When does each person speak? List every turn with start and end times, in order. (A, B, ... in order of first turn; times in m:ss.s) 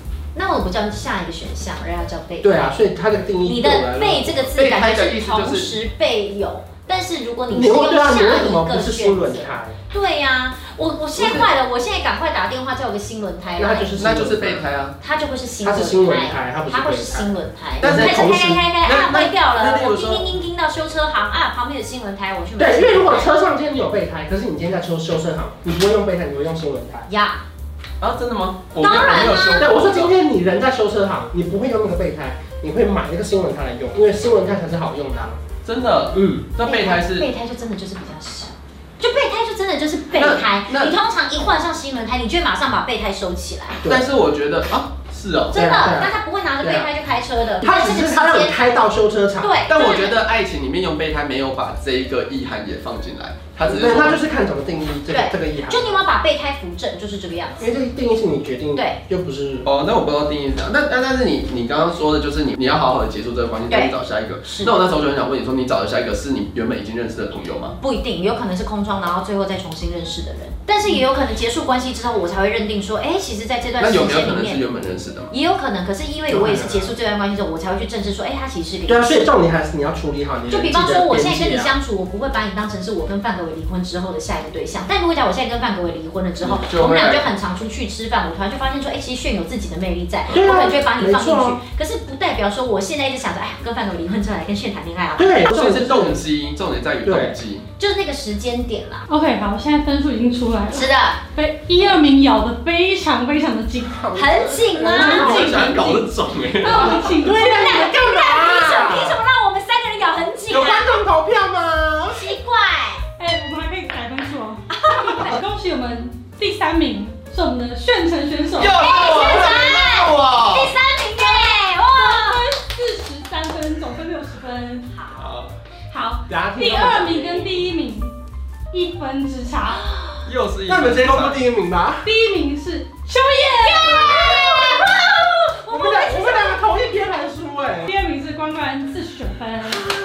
0:00.3-0:02.7 A
0:02.4-0:04.4 B
0:03.4-0:13.9 A
0:04.5-0:05.7 C
0:07.5-0:09.8 B
0:11.2-0:11.5 C
0:13.6-0:14.7 B
0:14.0-0:15.0 C
0:15.0-0:23.3 A
0:15.6-0:18.6 B
0:17.8-0:20.3 C
0:22.6-0:27.1 B
0:27.1-0:27.4 A
0:28.0-0:30.1 C
0:28.8-0:29.7 A
0:29.5-0:35.4 B
0:35.6-0:37.3 C
0:36.1-0:36.5 B
0:36.6-0:43.8 A
0:40.1-0:41.0 C
0:43.8-0:45.6 C
0:45.5-0:48.7 A
0:45.5-0:46.9 B
0:47.6-0:49.5 B
0:49.4-0:50.2 A
0:49.7-0:54.2 C
0:53.6-0:56.0 B
0:55.1-0:57.7 A
0:57.6-0:59.7 B
0:59.6-1:07.8 C
1:03.7-1:04.7 A
1:07.8-1:14.6 A
1:13.8-1:15.3 C
1:15.3-1:19.3 A
1:16.3-1:16.9 B
1:18.9-1:21.7 B
1:20.5-1:35.4 A
1:26.4-1:27.3 C
1:30.3-1:30.5 C
1:30.3-1:31.6 B
1:35.2-1:36.2 B
1:35.4-1:37.6 C
1:37.0-1:37.4 B
1:37.8-1:39.0 A
1:39.1-1:44.0 D
1:40.7-1:41.2 A
1:43.8-1:45.8 B
1:44.1-1:46.0 A
1:44.9-1:45.9 D
1:45.0-1:47.1 C
1:46.6-1:47.9 D
1:46.7-1:49.2 B
1:47.2-1:51.0 A
1:50.5-1:52.3 B
1:52.1-1:53.0 A
1:53.2-1:58.8 D
1:54.7-1:55.4 A
1:58.6-2:00.7 C
1:58.7-2:02.4 A
2:01.1-2:04.9 D
2:04.9-2:05.3 A
2:05.2-2:05.5 C
2:05.9-2:08.1 D
2:06.3-2:07.5 B
2:08.7-2:09.8 D
2:10.2-2:11.4 C
2:10.7-2:12.1 B
2:12.0-2:16.7 D
2:13.6-2:15.3 A
2:13.8-2:15.0 B
2:15.7-2:17.9 B
2:17.8-2:19.9 D